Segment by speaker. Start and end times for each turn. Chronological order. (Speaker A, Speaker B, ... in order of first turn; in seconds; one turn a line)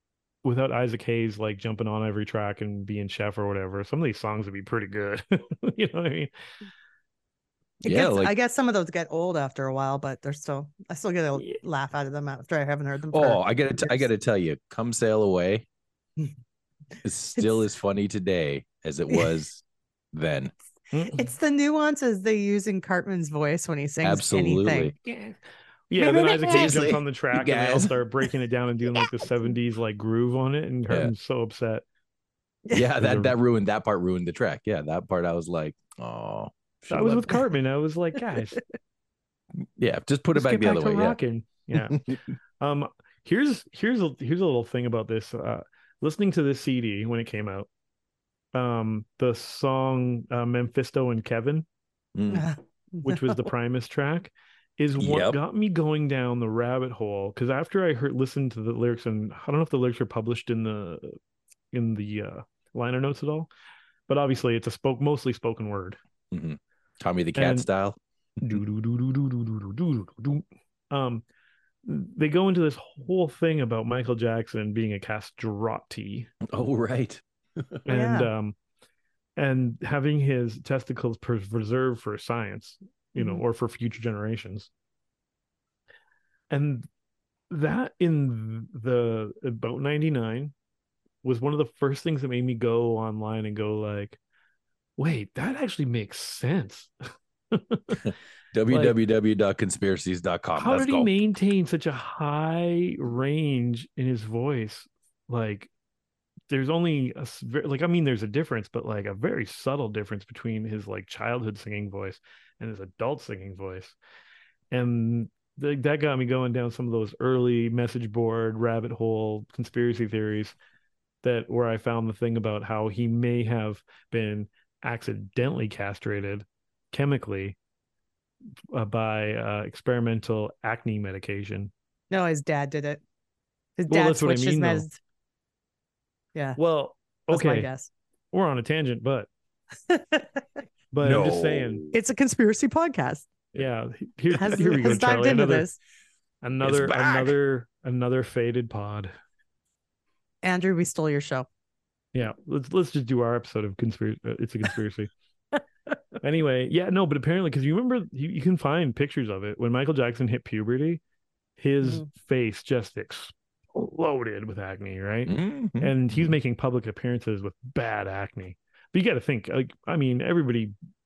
Speaker A: 0.4-6.3
Speaker B: 7.8-14.1
Speaker C: 7.8-8.3
Speaker C: 13.1-15.7
Speaker C: 17.0-19.6
Speaker B: 17.4-17.6
Speaker C: 20.1-20.5
Speaker A: 20.9-21.3
Speaker B: 21.2-24.9
Speaker C: 24.0-24.9
Speaker A: 25.0-25.4
Speaker A: 25.9-31.8
Speaker B: 26.0-26.8
Speaker C: 26.0-28.0
Speaker C: 32.7-37.3
Speaker A: 33.0-33.3
Speaker A: 36.9-38.6
Speaker C: 39.8-41.2
Speaker A: 40.3-42.0
Speaker C: 41.7-42.2
Speaker A: 42.6-47.7
Speaker A: 48.5-51.6
Speaker C: 52.1-52.5
Speaker B: 52.3-53.4
Speaker A: 53.0-61.1
Speaker C: 55.0-55.4
Speaker A: 61.7-63.5
Speaker A: 64.1-66.0
Speaker C: 66.3-68.0
Speaker A: 67.3-67.7
Speaker A: 68.4-71.2
Speaker A: 71.8-76.3
Speaker C: 76.5-77.8
Speaker A: 77.8-78.5
Speaker B: 77.9-78.3
Speaker A: 79.4-84.7
Speaker B: 83.2-83.4
Speaker A: 86.5-86.9
Speaker A: 87.5-90.5
Speaker A: 91.2-94.2
Speaker A: 95.0-96.9
Speaker A: 97.5-97.9
Speaker C: 97.9-101.2
Speaker A: 98.7-99.0
Speaker A: 100.6-105.7
Speaker A: 106.5-114.0
Speaker A: 114.7-120.5
Speaker A: 121.2-127.5
Speaker A: 128.7-131.7
Speaker B: 132.1-133.0
Speaker B: 133.8-135.0
Speaker A: 133.9-134.9
Speaker A: 136.6-137.7
Speaker B: 137.3-137.9
Speaker A: 138.3-139.3
Speaker B: 139.9-140.6
Speaker A: 140.9-141.8
Speaker C: 141.0-141.9
Speaker B: 141.9-143.3
Speaker A: 143.5-145.7
Speaker B: 144.3-145.8
Speaker A: 146.4-149.1
Speaker C: 146.6-147.3
Speaker B: 150.4-151.5
Speaker A: 152.1-155.1
Speaker A: 156.2-161.0
Speaker A: 161.6-170.7
Speaker C: 165.2-166.3